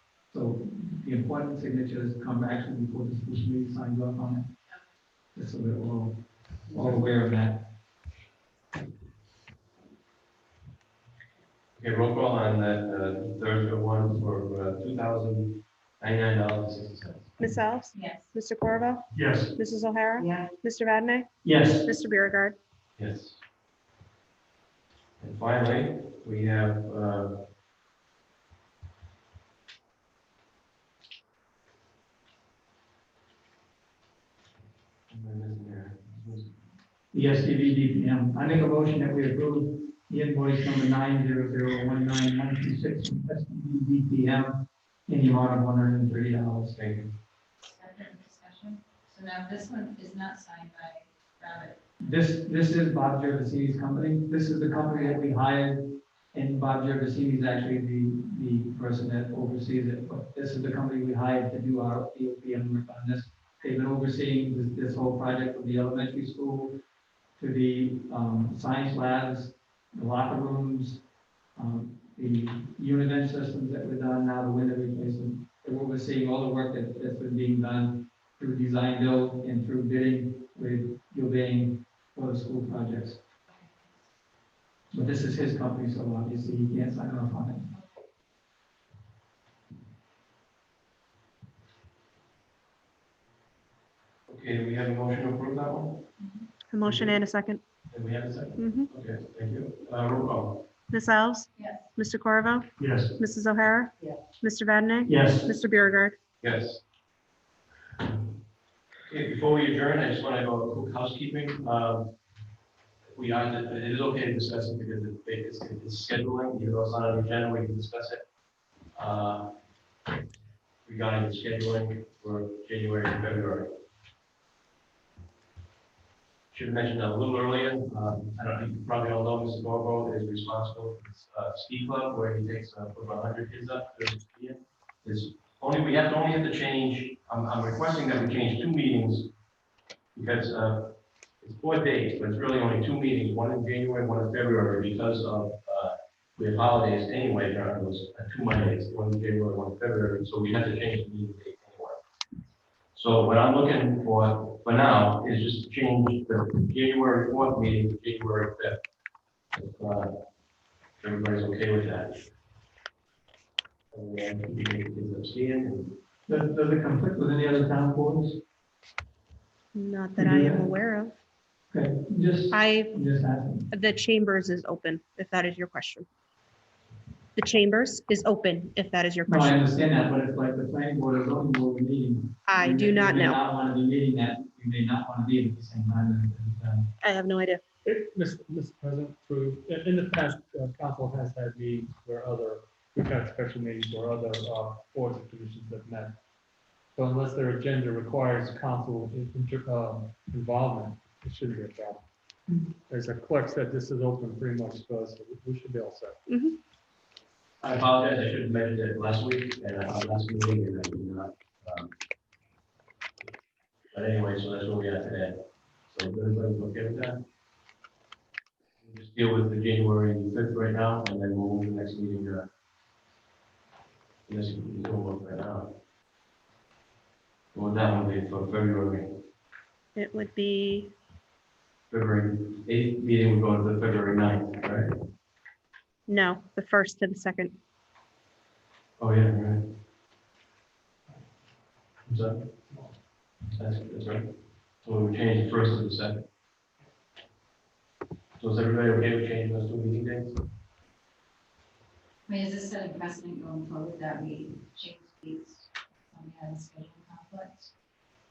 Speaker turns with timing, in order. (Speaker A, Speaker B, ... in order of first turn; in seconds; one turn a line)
Speaker A: 0.3-4.5
Speaker A: 5.3-6.2
Speaker A: 6.7-7.6
Speaker B: 11.8-17.3
Speaker C: 17.4-21.3
Speaker D: 17.9-18.3
Speaker D: 20.2-20.5
Speaker A: 21.4-21.8
Speaker C: 21.8-22.6
Speaker B: 23.0-23.4
Speaker B: 25.2-27.4
Speaker B: 35.1-36.6
Speaker A: 37.1-44.5
Speaker A: 45.1-46.8
Speaker B: 46.7-47.1
Speaker D: 47.6-51.8
Speaker A: 52.0-66.8
Speaker A: 67.4-71.0
Speaker A: 71.5-83.2
Speaker D: 83.5-83.9
Speaker A: 84.9-87.7
Speaker D: 87.7-88.0
Speaker B: 94.3-96.0
Speaker D: 96.2-96.5
Speaker C: 96.7-97.6
Speaker B: 96.8-97.2
Speaker B: 97.9-100.6
Speaker C: 98.6-98.9
Speaker C: 100.9-106.2
Speaker D: 101.6-101.9
Speaker A: 105.1-105.4
Speaker B: 106.4-106.8
Speaker B: 108.0-108.3
Speaker B: 109.1-112.1
Speaker B: 113.1-118.2
Speaker B: 118.9-119.5
Speaker B: 120.8-123.7
Speaker B: 126.5-139.3
Speaker B: 140.1-152.0
Speaker B: 152.9-158.8
Speaker B: 159.5-160.1
Speaker B: 161.0-162.1
Speaker B: 163.9-166.0
Speaker A: 166.3-168.4
Speaker C: 169.7-171.1
Speaker A: 170.2-170.6
Speaker A: 171.7-173.7
Speaker C: 172.5-172.9
Speaker C: 173.7-176.1
Speaker C: 177.3-179.6
Speaker A: 179.3-186.9
Speaker C: 182.4-183.4
Speaker C: 187.0-187.6
Speaker E: 187.8-196.2
Speaker E: 196.9-202.0
Speaker E: 202.9-206.2
Speaker C: 206.3-206.5
Speaker B: 207.6-211.9
Speaker B: 213.9-217.2
Speaker B: 218.8-222.5
Speaker B: 224.3-225.7
Speaker B: 227.5-229.1
Speaker C: 229.9-230.9
Speaker B: 231.9-234.9
Speaker C: 236.1-237.5
Speaker B: 239.0-239.7
Speaker B: 242.1-242.8
Speaker B: 243.6-244.3
Speaker B: 244.8-246.2
Speaker B: 248.4-250.4
Speaker D: 252.3-257.7